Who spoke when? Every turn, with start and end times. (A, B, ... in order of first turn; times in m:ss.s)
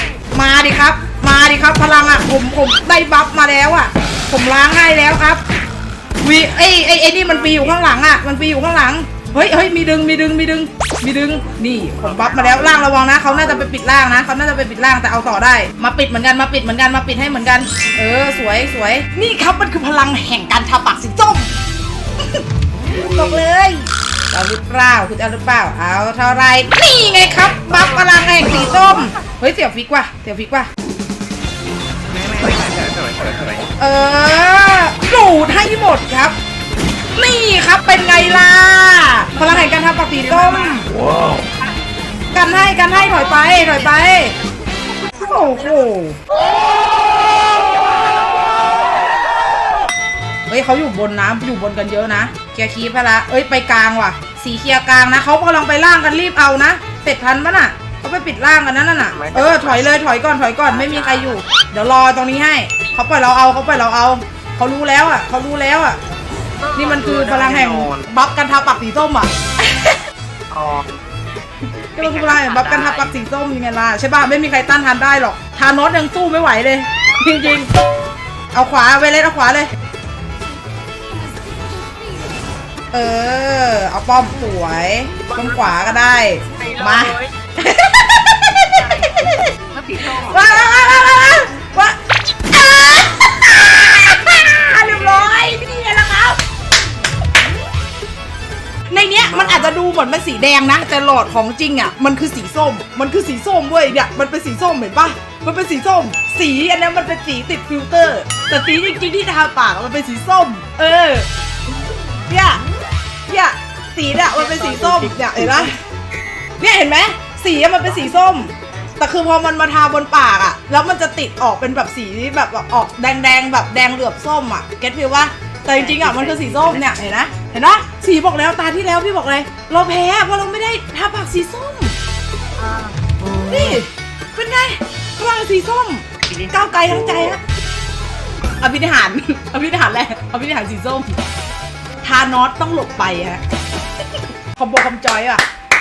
0:00.3-0:05.4 A
0:06.2-0:21.5 A
0:07.2-0:07.8 B
0:12.0-0:12.9 B
0:23.0-0:30.7 A
0:23.0-0:23.4 B
0:28.4-0:29.0 B
0:32.2-0:33.6 B
0:33.8-0:36.3 A
0:37.2-0:40.9 A
0:40.2-0:40.8 B
0:42.3-0:44.3 A
0:45.2-0:46.2 A
0:50.5-1:06.0 A
0:59.1-1:00.0 B
1:00.6-1:01.4 B
1:06.6-1:08.1 B
1:06.7-1:10.0 A
1:10.5-1:11.0 B
1:11.9-1:17.7 A
1:12.0-1:13.1 B
1:18.5-1:19.7 A
1:22.9-1:29.5 A
1:25.2-1:25.9 B
1:26.6-1:27.3 B
1:28.8-1:30.7 B
1:30.0-1:32.0 A
1:32.5-1:36.4 A
1:38.9-1:51.2 A
1:39.2-1:39.7 B
1:52.3-1:52.6 A
1:53.3-1:55.7 A
1:54.3-1:55.7 B
1:56.6-2:11.9 A
2:05.7-2:06.8 B
2:12.6-2:13.8 B
2:13.5-2:17.4 A
2:16.3-2:17.4 B
2:18.6-2:21.1 A
2:22.0-2:23.4 A
2:24.6-2:25.4 A